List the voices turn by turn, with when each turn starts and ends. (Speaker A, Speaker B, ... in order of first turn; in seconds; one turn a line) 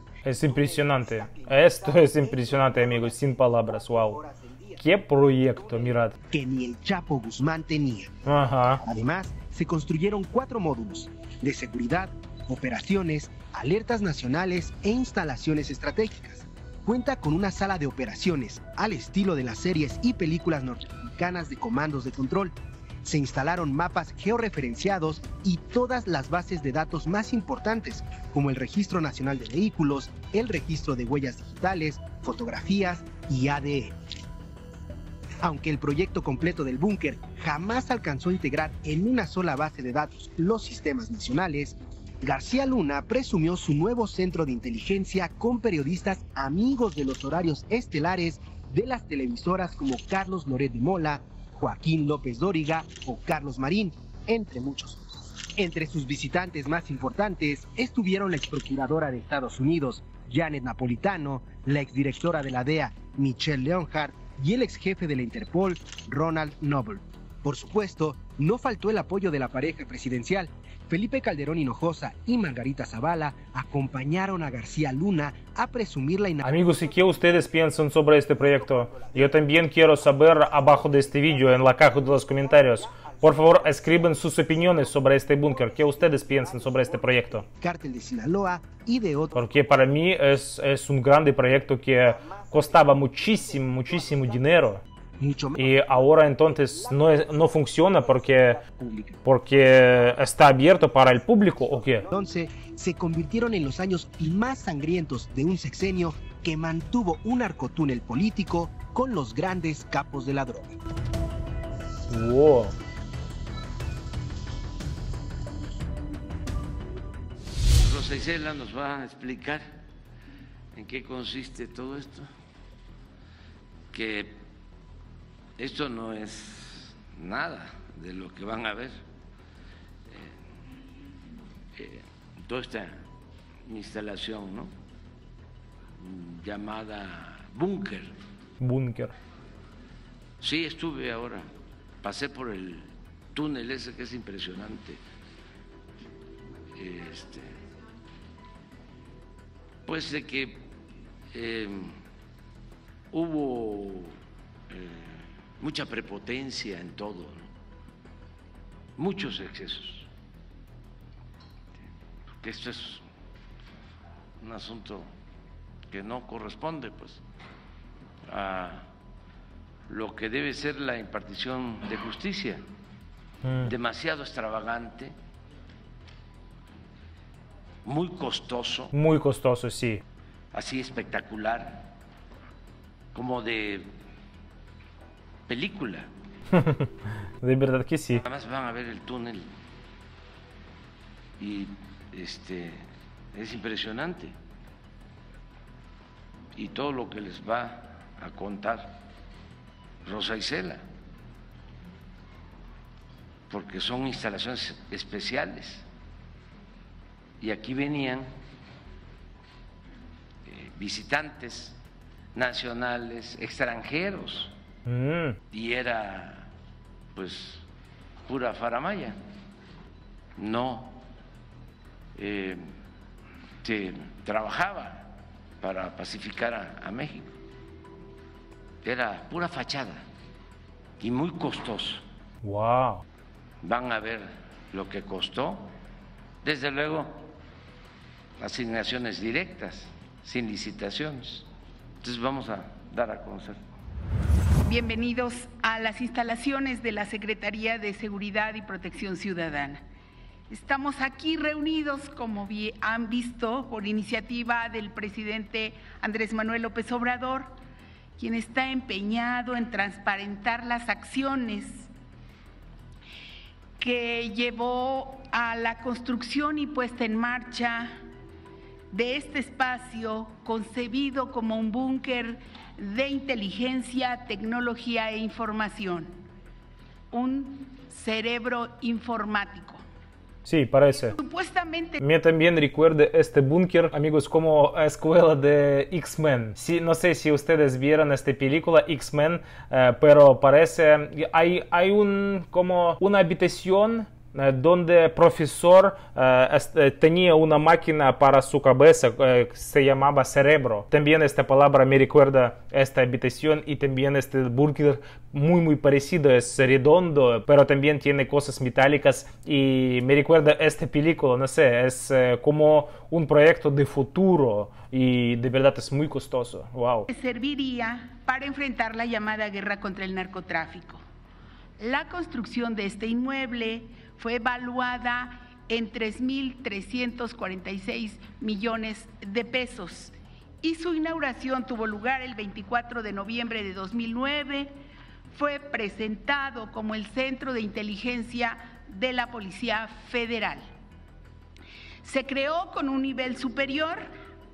Speaker A: 0.2-4.2
Speaker B: 0.4-4.8
Speaker A: 4.8-6.1
Speaker B: 5.5-8.1
Speaker A: 8.2-8.8
Speaker B: 8.8-33.9
Speaker B: 35.4-76.9
Speaker A: 76.4-87.5
Speaker B: 78.4-79.4
Speaker B: 80.1-89.5
Speaker A: 89.3-94.8
Speaker B: 92.1-94.6
Speaker B: 95.2-99.2
Speaker A: 95.6-98.6
Speaker A: 99.2-102.0
Speaker B: 102.0-110.8
Speaker A: 112.1-112.7
Speaker C: 117.8-119.7
Speaker C: 120.7-122.3
Speaker C: 123.9-124.4
Speaker C: 125.6-129.0
Speaker C: 130.1-130.3
Speaker C: 131.8-133.0
Speaker C: 133.7-134.7
Speaker C: 136.0-138.1
Speaker A: 138.6-139.1
Speaker C: 140.4-141.4
Speaker C: 142.0-145.0
Speaker C: 146.7-147.6
Speaker C: 149.8-150.7
Speaker C: 151.3-151.9
Speaker C: 153.1-154.1
Speaker C: 154.7-157.4
Speaker C: 159.0-160.1
Speaker C: 162.4-163.0
Speaker C: 164.4-165.1
Speaker C: 165.9-167.2
Speaker C: 168.3-168.9
Speaker C: 169.9-172.6
Speaker A: 173.4-173.7
Speaker C: 173.6-175.1
Speaker C: 177.8-178.9
Speaker A: 178.9-180.0
Speaker C: 180.5-181.9
Speaker C: 183.1-183.9
Speaker C: 185.5-186.1
Speaker A: 186.5-186.9
Speaker A: 187.4-188.2
Speaker C: 188.2-189.5
Speaker C: 191.4-194.3
Speaker C: 196.5-199.0
Speaker C: 200.0-200.8
Speaker C: 203.5-205.8
Speaker C: 207.4-208.3
Speaker C: 210.4-211.8
Speaker C: 212.3-214.5
Speaker A: 214.8-215.4
Speaker C: 215.5-216.5
Speaker C: 217.1-217.6
Speaker C: 218.2-219.2
Speaker C: 220.4-221.0
Speaker C: 222.2-222.6
Speaker C: 223.6-225.1
Speaker C: 225.6-227.3
Speaker C: 228.8-230.0
Speaker C: 231.0-232.0
Speaker A: 232.4-233.0
Speaker C: 233.6-235.7
Speaker C: 236.4-237.3
Speaker C: 238.4-241.5
Speaker C: 242.0-243.6
Speaker D: 244.6-249.8
Speaker D: 250.5-257.5
Speaker D: 258.2-261.9
Speaker D: 263.8-268.0
Speaker D: 268.9-276.1
Speaker D: 277.1-279.8
Speaker A: 280.4-281.1
Speaker D: 280.9-282.0
Speaker A: 282.0-317.1
Speaker D: 317.1-321.0
Speaker D: 321.8-334.7
Speaker D: 335.3-340.6
Speaker D: 342.0-344.1